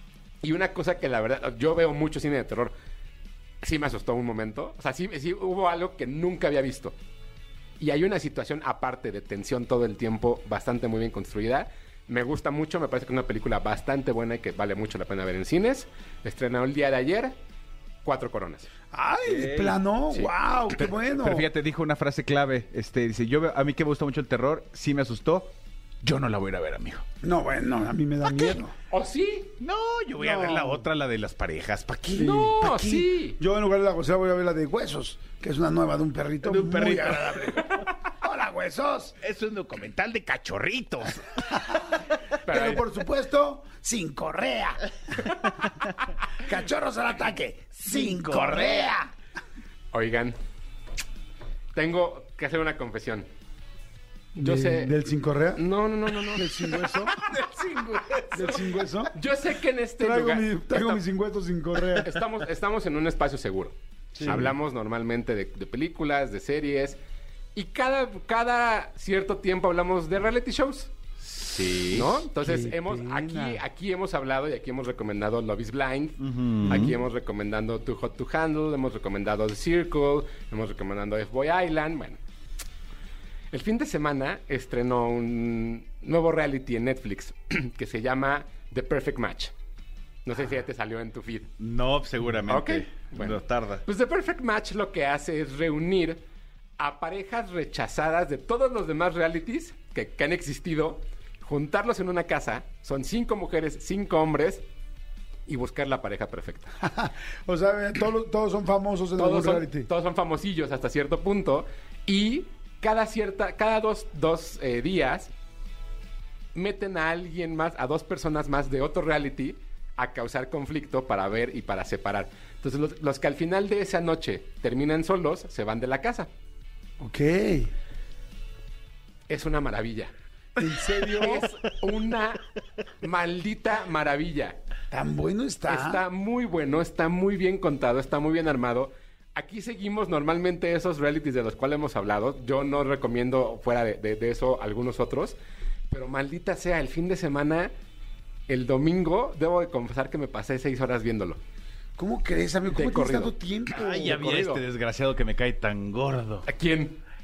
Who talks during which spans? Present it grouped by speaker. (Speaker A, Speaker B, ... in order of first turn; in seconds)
Speaker A: 0.4-2.8, 3.6-7.0, 7.8-17.4, 18.1-18.7, 28.9-29.5, 32.1-33.4, 42.5-42.8, 49.9-50.4, 51.7-53.3, 54.4-55.0, 55.5-61.0, 62.0-67.0, 67.5-70.9, 71.9-82.2, 83.5-89.5, 90.2-91.5, 92.5-96.2, 96.8-104.6, 105.5-106.7, 109.2-115.3, 116.5-126.3, 129.3-130.1, 131.0-132.4, 133.0-134.6, 135.7-145.4, 145.9-147.7, 148.5-151.4, 152.7-154.6, 156.5-157.0
Speaker B: 18.9-21.5, 27.2-28.8, 30.2-30.9, 32.1-39.2, 41.5-44.8, 46.4-49.1, 54.4-55.6, 56.3-57.2, 58.3-59.1, 60.0-62.1, 64.2-64.5, 72.4-73.6, 106.8-109.9, 127.0-127.7, 130.6-131.5, 134.9-136.0, 152.0-154.3
Speaker C: 19.2-19.8, 20.8-25.5, 26.0-27.1, 29.6-32.4, 36.4-37.8, 39.2-41.6, 47.9-49.0, 64.2-64.5, 71.3-72.1, 76.2-76.9, 91.6-93.8, 153.7-156.5